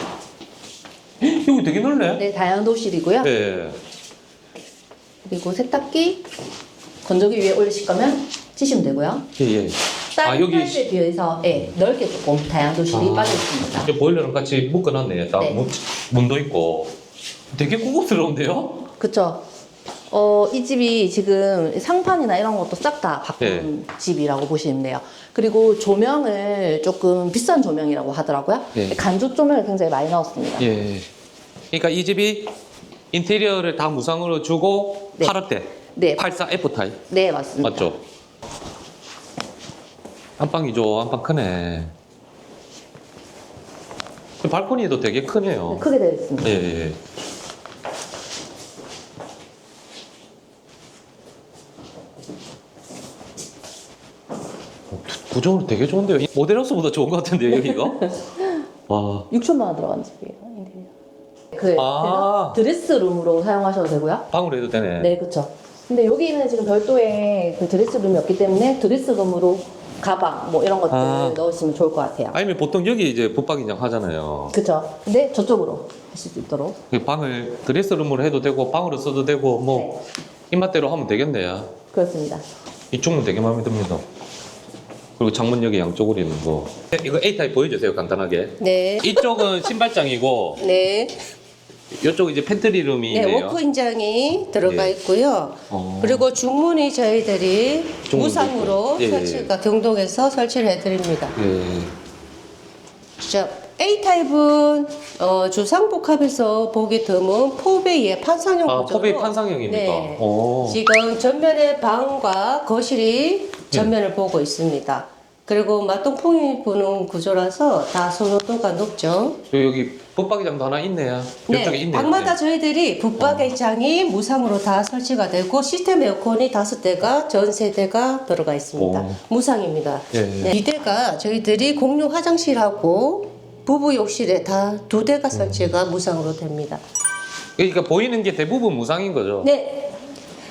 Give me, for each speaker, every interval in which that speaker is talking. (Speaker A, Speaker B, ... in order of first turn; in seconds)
Speaker A: 1.2-2.2, 3.2-3.8, 9.4-10.9, 12.9-16.9, 17.5-18.9, 23.4-23.7, 30.6-31.1, 31.7-32.5, 33.1-37.0, 37.6-38.0, 40.4-41.9, 44.4-45.9, 46.4-47.0, 54.9-58.1, 58.9-59.3, 61.8-62.6, 64.3-65.1, 70.9-71.5, 72.3-74.5, 76.9-79.9, 80.5-81.7, 82.9-84.0, 85.2-90.6, 92.0-93.6, 94.5-95.0, 95.7-96.3, 98.1-99.5, 101.4-101.9, 108.7-110.8, 119.5-122.4, 123.2-123.5, 128.8-129.2, 130.1-130.6, 137.6-139.5
Speaker B: 2.2-3.3, 5.2-6.2, 7.0-9.3, 10.2-13.9, 15.4-15.7, 19.0-19.4, 20.1-30.8, 35.9-36.2, 37.1-37.9, 45.7-46.6, 57.5-58.5, 59.3-60.9, 61.5-64.3, 65.0-72.4, 74.5-76.8, 79.7-80.0, 81.9-82.4
Speaker C: 88.6-89.5, 90.6-91.3, 93.1-101.4, 103.2-119.4, 121.5-136.8, 139.4-140.0